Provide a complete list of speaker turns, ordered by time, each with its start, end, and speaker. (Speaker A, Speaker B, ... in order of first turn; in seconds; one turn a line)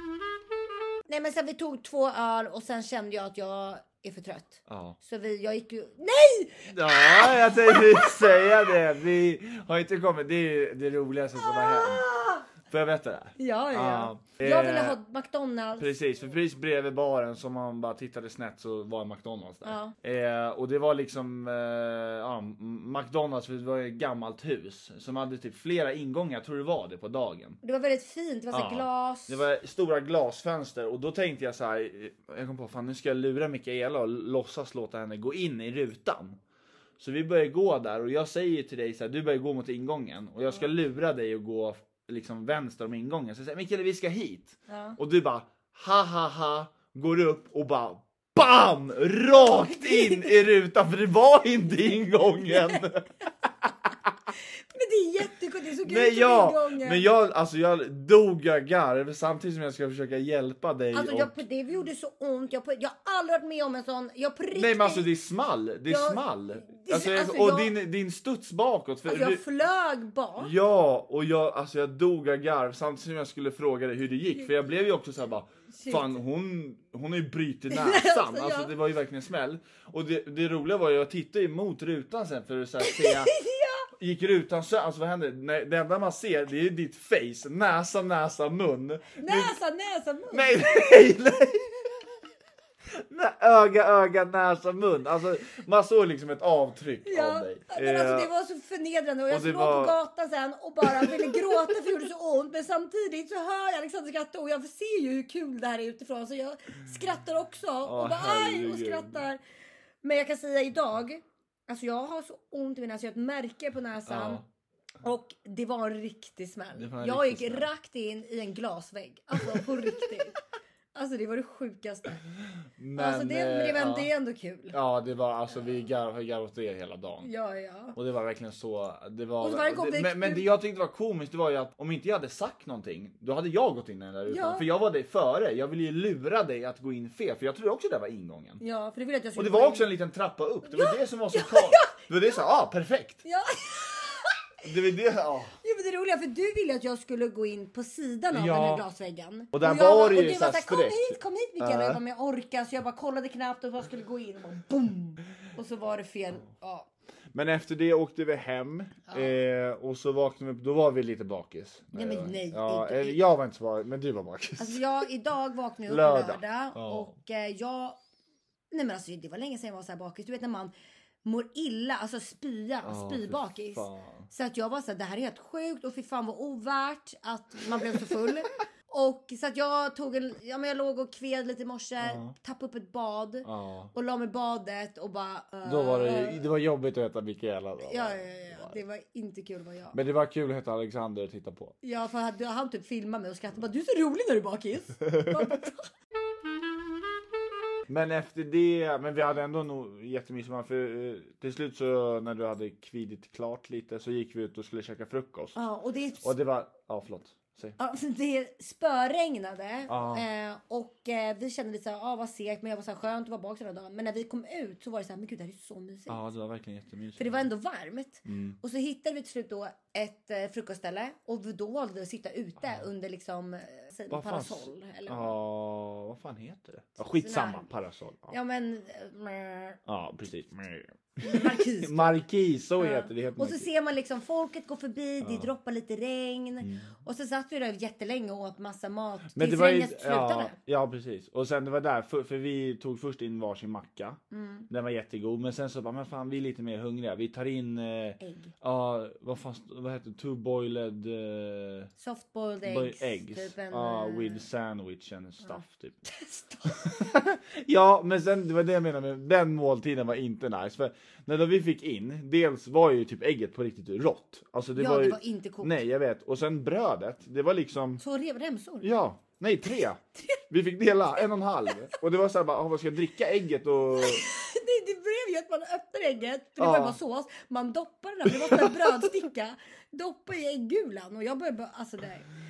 Speaker A: 1.1-8.7
Speaker B: 4.7-5.0
Speaker B: 6.7-12.1
Speaker A: 11.4-12.4
Speaker B: 12.7-15.0
Speaker A: 13.4-15.9
Speaker B: 15.8-27.6
Speaker A: 19.6-19.9
Speaker A: 27.6-29.4
Speaker B: 28.5-36.4
Speaker B: 37.0-53.1
Speaker A: 44.7-45.0
Speaker A: 49.4-50.3
Speaker A: 52.5-52.8
Speaker A: 54.7-57.1
Speaker B: 55.8-61.4
Speaker A: 60.9-65.1
Speaker B: 64.5-69.4
Speaker A: 65.9-67.7
Speaker A: 69.1-70.5
Speaker B: 70.4-83.4
Speaker A: 75.7-76.2
Speaker A: 77.7-78.7
Speaker A: 82.8-83.9
Speaker B: 84.0-89.5
Speaker A: 89.2-91.2
Speaker B: 90.3-91.8
Speaker B: 93.0-98.3
Speaker A: 97.1-109.4
Speaker B: 99.3-100.0
Speaker B: 100.8-101.8
Speaker B: 107.8-109.2
Speaker A: 110.0-114.4
Speaker B: 114.1-114.5
Speaker A: 115.0-120.4
Speaker B: 116.8-117.7
Speaker A: 120.9-122.2
Speaker B: 122.8-124.1
Speaker A: 123.0-124.8
Speaker B: 124.7-127.3
Speaker A: 127.2-128.0
Speaker B: 127.9-138.6
Speaker A: 129.4-130.5
Speaker A: 134.3-134.7
Speaker A: 138.6-139.9
Speaker B: 139.4-143.2
Speaker A: 140.7-142.0
Speaker A: 143.2-144.3
Speaker B: 144.6-145.6
Speaker A: 145.6-156.9
Speaker B: 148.3-148.9
Speaker B: 149.5-152.0
Speaker B: 157.3-165.0
Speaker A: 161.9-163.2
Speaker A: 164.6-168.0
Speaker B: 165.9-167.1
Speaker A: 168.7-170.7
Speaker A: 171.2-186.4
Speaker B: 172.8-174.3
Speaker B: 182.0-182.3
Speaker B: 183.4-183.9
Speaker B: 185.6-188.8
Speaker A: 187.8-190.0
Speaker B: 189.9-191.8
Speaker A: 191.8-195.9
Speaker B: 195.1-195.4
Speaker B: 197.9-205.6
Speaker A: 205.6-206.3
Speaker B: 206.2-207.8
Speaker A: 207.8-216.2
Speaker B: 209.9-210.2
Speaker B: 216.1-217.5
Speaker A: 217.2-225.4
Speaker B: 218.2-218.6
Speaker B: 222.6-222.9
Speaker B: 224.1-228.3
Speaker A: 227.0-227.7
Speaker A: 228.3-229.8
Speaker B: 229.9-233.7
Speaker A: 231.2-232.2
Speaker A: 232.8-240.6
Speaker B: 235.2-235.5
Speaker B: 236.6-236.9
Speaker B: 239.3-251.9
Speaker A: 244.3-244.7
Speaker A: 248.2-248.5
Speaker A: 252.0-254.5
Speaker B: 252.6-256.0
Speaker A: 255.4-257.1
Speaker B: 256.7-268.0
Speaker A: 264.8-265.8
Speaker A: 268.0-268.9
Speaker B: 268.8-274.3
Speaker A: 273.9-282.3
Speaker B: 276.6-277.0
Speaker B: 278.3-279.1